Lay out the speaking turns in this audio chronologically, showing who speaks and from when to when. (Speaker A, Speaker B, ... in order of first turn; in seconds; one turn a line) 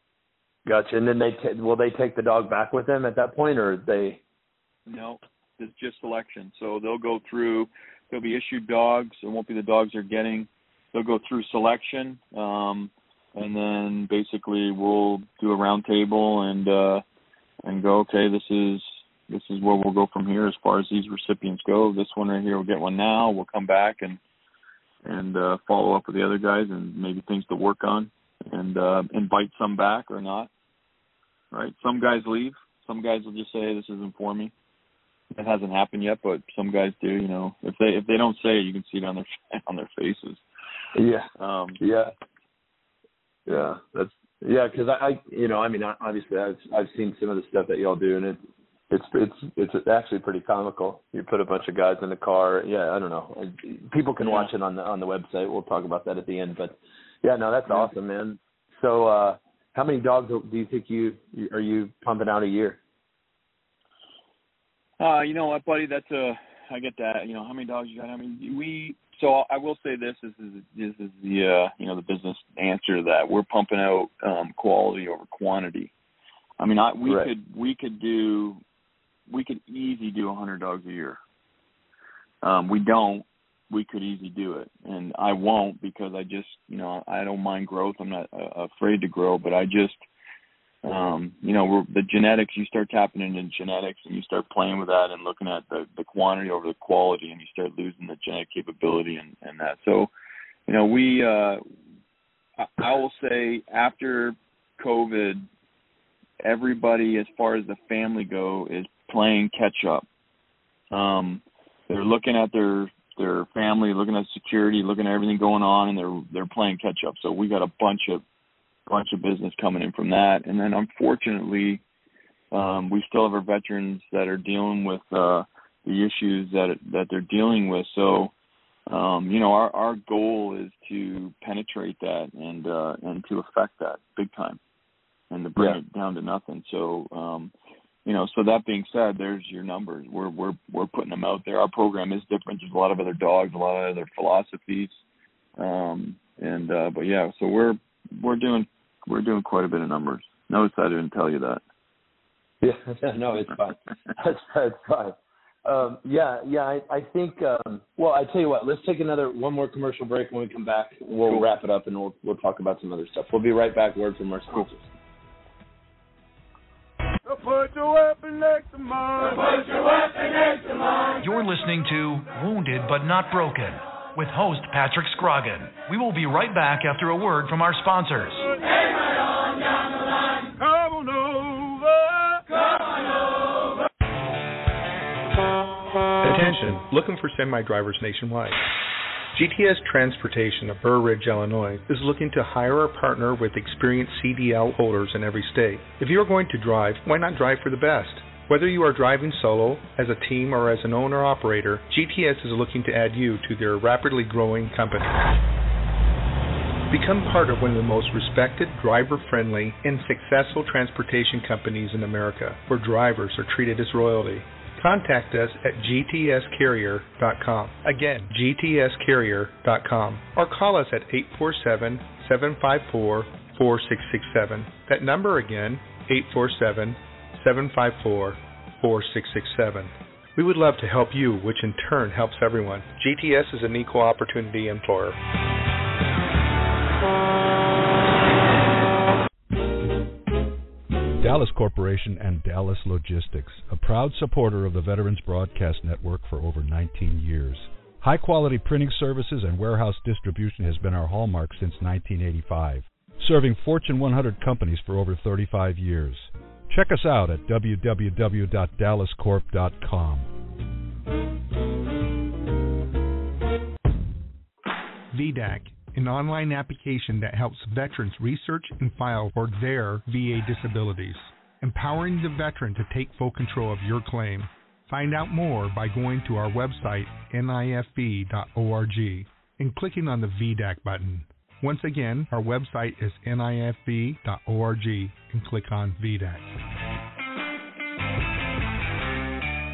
Speaker A: 0.7-4.2
Speaker B: 4.8-17.0
Speaker B: 17.6-24.2
Speaker B: 25.0-30.5
Speaker B: 31.5-34.5
Speaker B: 35.3-40.4
Speaker A: 40.9-41.3
Speaker B: 41.4-41.8
Speaker A: 41.8-42.1
Speaker A: 43.5-48.4
Speaker A: 48.9-62.8
Speaker B: 65.0-75.9
Speaker B: 76.6-78.6
Speaker A: 77.0-77.3
Speaker B: 79.3-81.2
Speaker B: 82.4-90.0
Speaker B: 90.8-100.1
Speaker B: 100.7-101.6
Speaker B: 102.6-105.4
Speaker B: 106.4-110.0
Speaker B: 110.9-118.2
Speaker B: 118.9-121.8
Speaker B: 122.5-128.3
Speaker B: 128.9-134.6
Speaker B: 135.3-137.5
Speaker B: 138.0-145.0
Speaker B: 145.6-151.6
Speaker A: 152.6-164.8
Speaker C: 167.2-170.9
Speaker D: 171.2-178.5
Speaker C: 180.6-182.5
Speaker E: 186.2-188.6
Speaker E: 189.3-205.2
Speaker E: 206.9-235.2
Speaker F: 241.2-260.3
Speaker E: 265.1-286.4